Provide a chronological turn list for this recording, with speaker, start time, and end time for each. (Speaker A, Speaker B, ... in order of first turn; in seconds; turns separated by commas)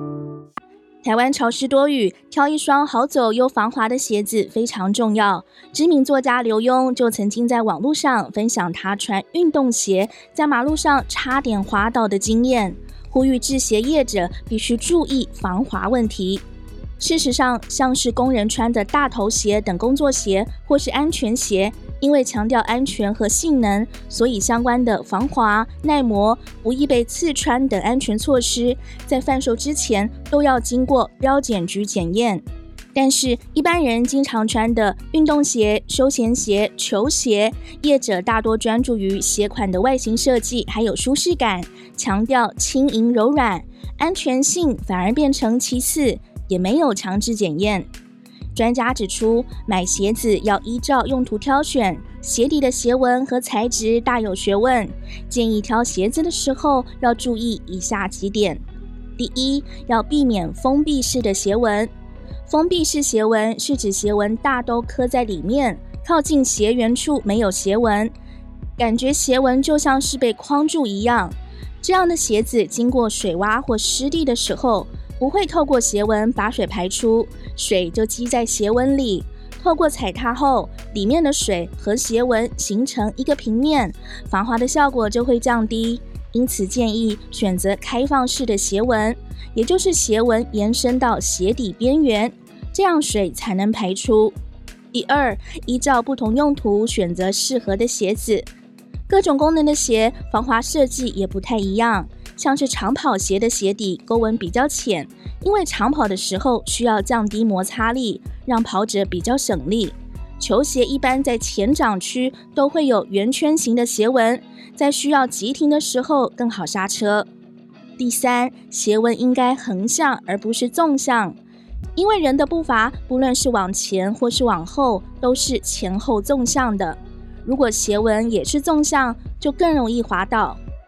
Speaker A: 1.0-16.4, Speaker A: 17.0-47.9, Speaker A: 48.5-58.6, Speaker A: 59.2-61.9, Speaker A: 62.5-68.1, Speaker A: 68.8-94.3, Speaker A: 94.9-98.5, Speaker A: 99.1-117.3, Speaker A: 118.0-121.4, Speaker A: 122.0-130.6